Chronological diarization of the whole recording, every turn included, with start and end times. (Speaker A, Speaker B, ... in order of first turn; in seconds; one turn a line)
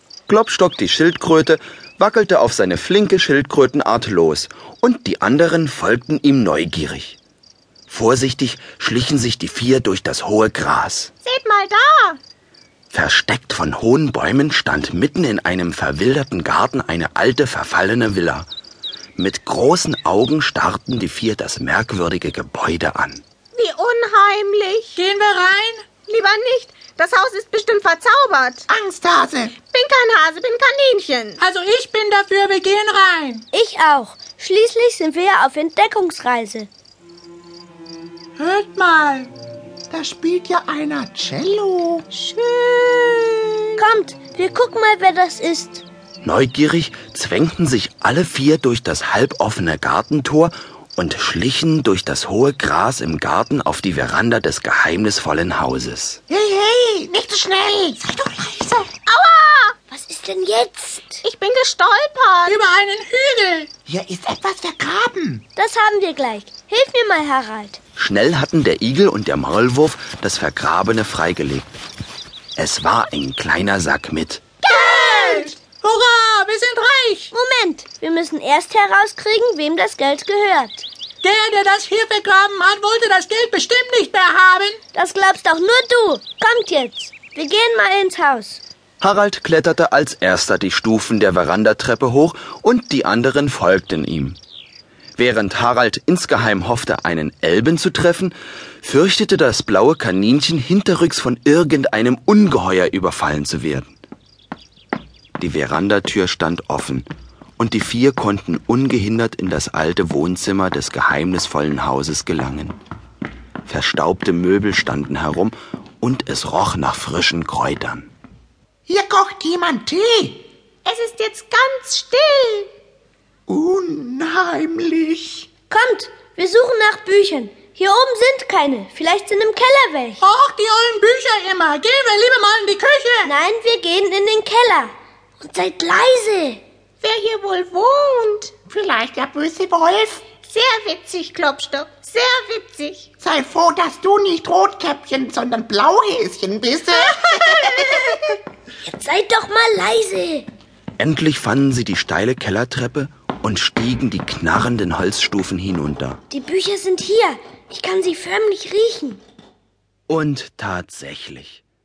Speaker A: 0.3-7.2
Speaker A: 7.9-11.1
Speaker B: 11.2-12.2
Speaker A: 12.9-18.5
Speaker A: 19.2-23.2
Speaker B: 23.5-24.9
Speaker C: 24.9-25.9
Speaker B: 26.0-28.7
Speaker D: 28.7-29.6
Speaker B: 29.7-31.4
Speaker C: 31.4-33.4
Speaker E: 33.5-36.7
Speaker C: 38.4-39.3
Speaker D: 39.9-42.1
Speaker B: 42.4-43.1
Speaker E: 43.8-45.8
Speaker A: 46.2-56.2
Speaker D: 56.3-58.9
Speaker B: 59.0-59.8
Speaker E: 59.9-61.2
Speaker B: 61.2-62.6
Speaker C: 62.5-63.7
Speaker D: 63.9-65.4
Speaker E: 65.5-67.8
Speaker A: 68.0-71.7
Speaker A: 72.6-74.4
Speaker E: 74.7-75.5
Speaker C: 74.7-77.3
Speaker E: 77.3-80.8
Speaker C: 81.2-84.8
Speaker E: 84.9-88.6
Speaker A: 89.0-94.4
Speaker A: 95.2-103.9
Speaker A: 105.4-107.1
Speaker A: 107.6-112.8
Speaker A: 113.7-118.1
Speaker D: 118.9-120.4
Speaker B: 120.8-122.7
Speaker D: 123.5-125.5
Speaker E: 125.7-130.2
Speaker C: 130.2-133.3
Speaker E: 133.2-136.6
Speaker B: 137.0-138.5
Speaker D: 138.6-140.3
Speaker B: 140.4-143.1
Speaker D: 143.1-148.3
Speaker E: 148.8-150.4
Speaker A: 151.0-156.2
Speaker E: 156.3-159.2
Speaker A: 160.1-161.6